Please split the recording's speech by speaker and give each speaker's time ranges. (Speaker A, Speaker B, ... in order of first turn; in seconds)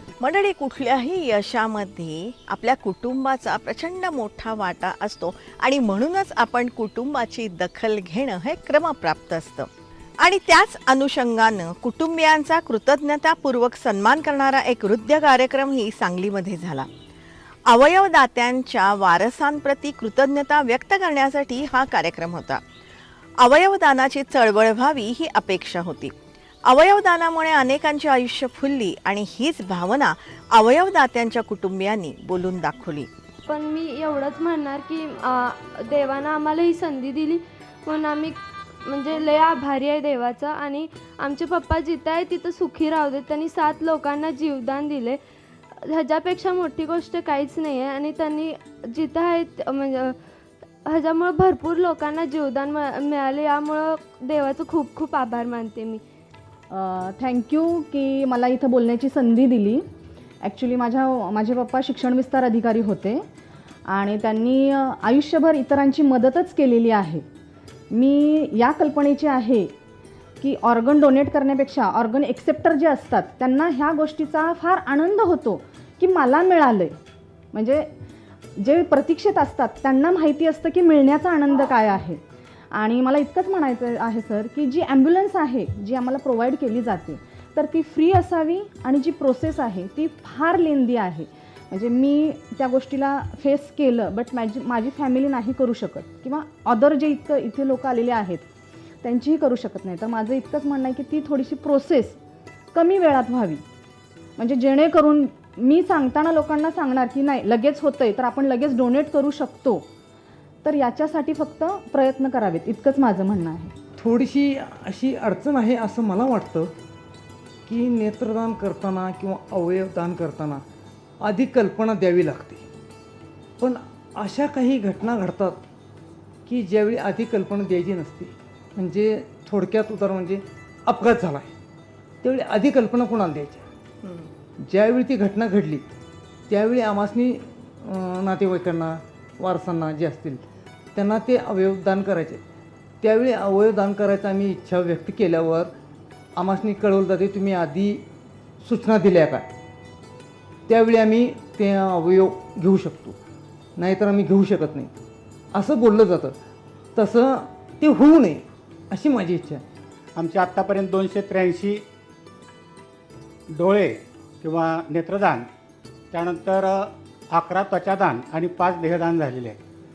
Speaker A: 0.2-16.9, 17.7-22.6, 23.4-26.1, 26.7-33.1, 134.0-134.3
Speaker B: 33.5-45.2, 45.7-50.2, 50.9-56.0
Speaker C: 56.7-59.8, 60.4-63.2, 63.9-67.2, 67.9-69.7, 70.4-77.0, 77.5-77.9, 78.6-82.2, 82.7-98.5, 99.0-102.2, 102.7-103.6, 104.4-109.9, 110.6-113.7
Speaker D: 114.0-116.7, 117.7-120.6, 121.2-122.6, 123.6-125.6, 126.5-131.5, 132.2-133.7, 134.7-135.8, 136.5-140.4, 140.9-142.4, 143.0-145.7, 146.4-148.0, 148.6-149.5, 150.7-153.2, 153.8-154.9, 155.5-156.4, 156.9-159.6
Speaker E: 160.2-161.8, 163.5-165.5, 166.1-169.6